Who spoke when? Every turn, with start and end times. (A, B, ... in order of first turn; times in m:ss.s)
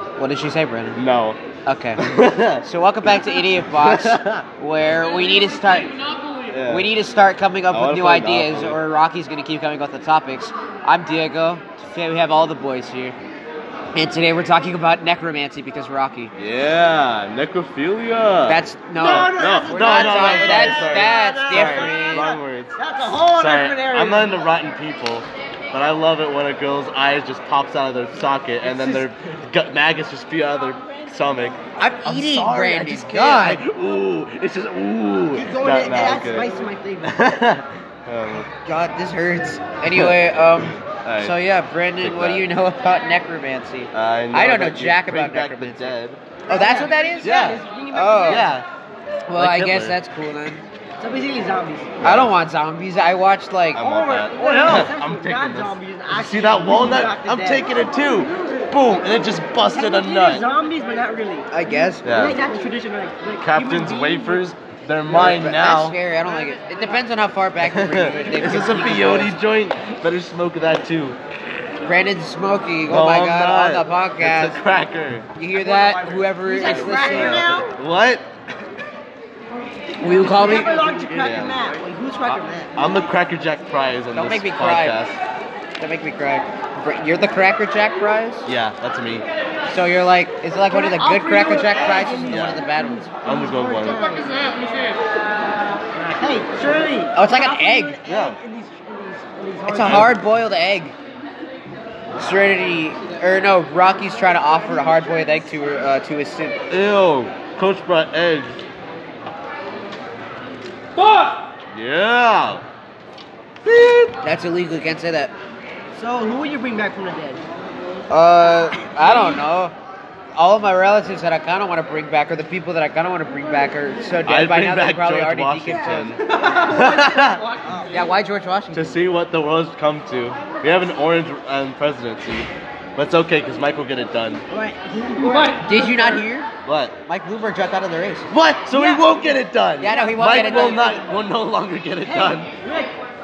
0:00.2-0:01.0 A
0:00.9-0:01.4 B
0:01.6-0:02.0 A
0:02.0-0:02.6 B
0:02.6-0:13.2 A
0:03.7-0:04.4 B
0:06.5-0:06.9 B
0:07.7-0:08.8 B
0:13.9-0:16.3 A
0:16.4-0:36.5 B
0:18.5-0:22.3 A
0:19.0-0:24.5 C
0:31.8-0:33.6 A
0:35.3-0:37.2 C
0:37.0-0:38.5 B
0:38.6-0:46.0 A
0:39.8-0:41.4 B
0:42.0-0:42.5 B
0:43.9-0:46.2 B
0:46.5-0:48.6 C
0:46.5-0:48.5 A
0:47.2-0:47.6 B
0:48.3-0:48.7 B
0:49.3-0:50.6 A
0:49.3-0:50.0 B
0:51.0-0:52.0 C
0:52.0-0:52.3 B
0:52.0-0:53.9 A
0:53.7-1:00.4 B
0:53.8-0:57.7 C
0:59.7-1:01.5 C
1:01.5-1:02.0 A
1:02.0-1:02.4 B
1:02.1-1:04.4 C
1:03.4-1:06.0 B
1:05.1-1:09.3 A
1:07.6-1:11.2 B
1:11.8-1:14.6 A
1:12.9-1:18.3 B
1:15.3-1:17.6 A
1:16.4-1:17.7 C
1:20.0-1:20.7 A
1:20.1-1:22.7 C
1:21.1-1:21.6 B
1:22.8-1:25.2 B
1:24.1-1:25.0 A
1:25.8-1:28.5 A
1:28.4-1:29.2 B
1:29.7-1:33.1 A
1:30.7-1:34.5 C
1:32.3-1:32.6 B
1:33.2-1:34.2 B
1:36.1-1:40.1 C
1:37.2-1:38.0 A
1:38.0-1:38.4 B
1:39.7-1:40.9 A
1:39.8-1:40.1 B
1:42.2-1:46.6 A
1:46.7-1:48.6 B
1:51.7-1:52.6 B
1:53.6-1:54.1 B
1:54.2-1:55.3 A
1:55.9-1:57.4 C
1:58.1-1:59.7 A
2:00.3-2:06.4 A
2:04.2-2:07.4 B
2:06.3-2:08.0 C
2:07.9-2:09.0 A
2:08.7-2:14.4 B
2:14.5-2:16.0 C
2:15.5-2:16.5 A
2:16.6-2:16.9 B
2:17.0-2:19.0 A
2:18.3-2:22.5 B
2:19.8-2:21.0 A
2:20.0-2:20.5 C
2:22.0-2:22.9 C